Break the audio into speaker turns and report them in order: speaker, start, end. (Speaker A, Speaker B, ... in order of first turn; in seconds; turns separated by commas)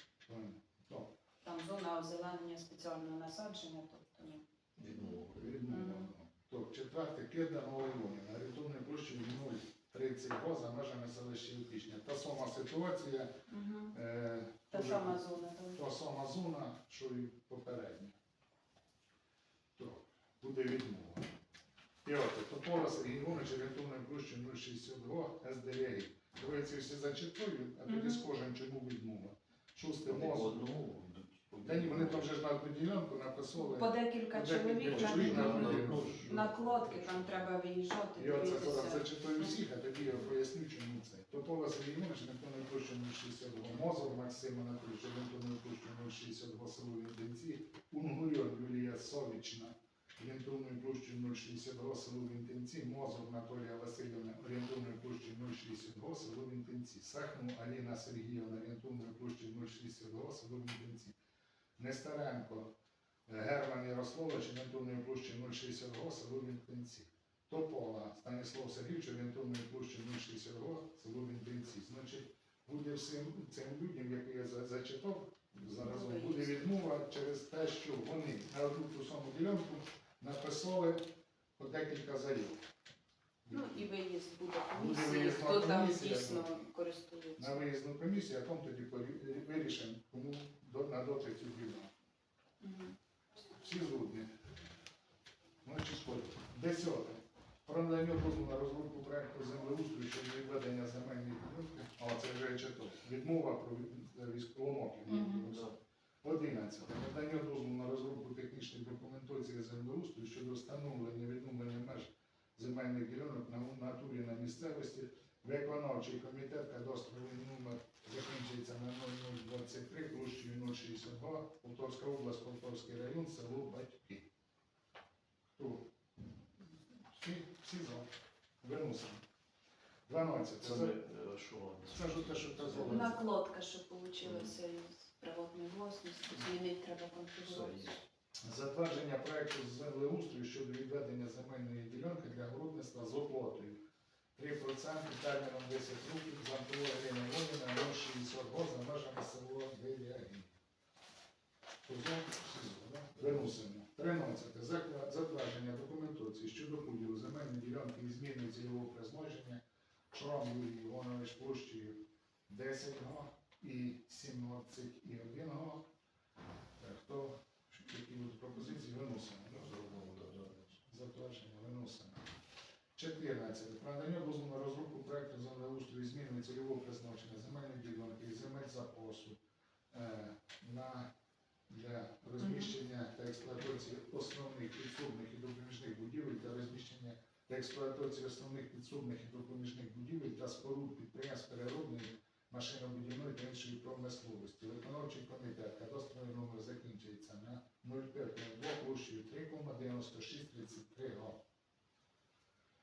Speaker A: 0.2-1.1, Speaker B: 1.4-4.4, Speaker C: 4.8-5.7, Speaker A: 5.3-13.3, Speaker B: 5.7-6.1, Speaker B: 13.5-13.9, Speaker A: 13.9-15.2, Speaker B: 14.7-15.8, Speaker A: 15.7-18.1, Speaker A: 19.8-21.3, Speaker A: 22.0-30.6, Speaker B: 27.9-28.2, Speaker C: 30.1-32.3, Speaker A: 31.6-36.3, Speaker B: 33.6-39.6, Speaker C: 34.9-37.3, Speaker A: 38.1-61.1, Speaker A: 61.8-62.7, Speaker A: 63.3-81.0, Speaker B: 75.7-76.7, Speaker A: 81.6-82.6, Speaker A: 83.5-83.9, Speaker B: 83.5-87.6, Speaker A: 84.7-86.6, Speaker A: 87.4-91.9, Speaker B: 92.6-93.0, Speaker A: 93.5-94.3, Speaker A: 95.6-124.2, Speaker C: 105.4-105.7, Speaker A: 125.5-125.9, Speaker A: 127.0-128.1, Speaker A: 128.6-129.2, Speaker A: 130.1-130.9, Speaker C: 130.6-133.1, Speaker A: 131.9-133.2, Speaker B: 132.8-137.9, Speaker C: 134.2-134.5, Speaker C: 137.4-138.0, Speaker A: 138.4-143.8, Speaker A: 144.3-150.6, Speaker A: 151.8-159.6, Speaker A: 160.1-165.8, Speaker A: 166.8-169.7, Speaker C: 169.5-170.8, Speaker A: 170.8-172.2, Speaker A: 172.9-179.4, Speaker A: 179.9-181.1, Speaker A: 181.7-201.4, Speaker B: 182.4-182.7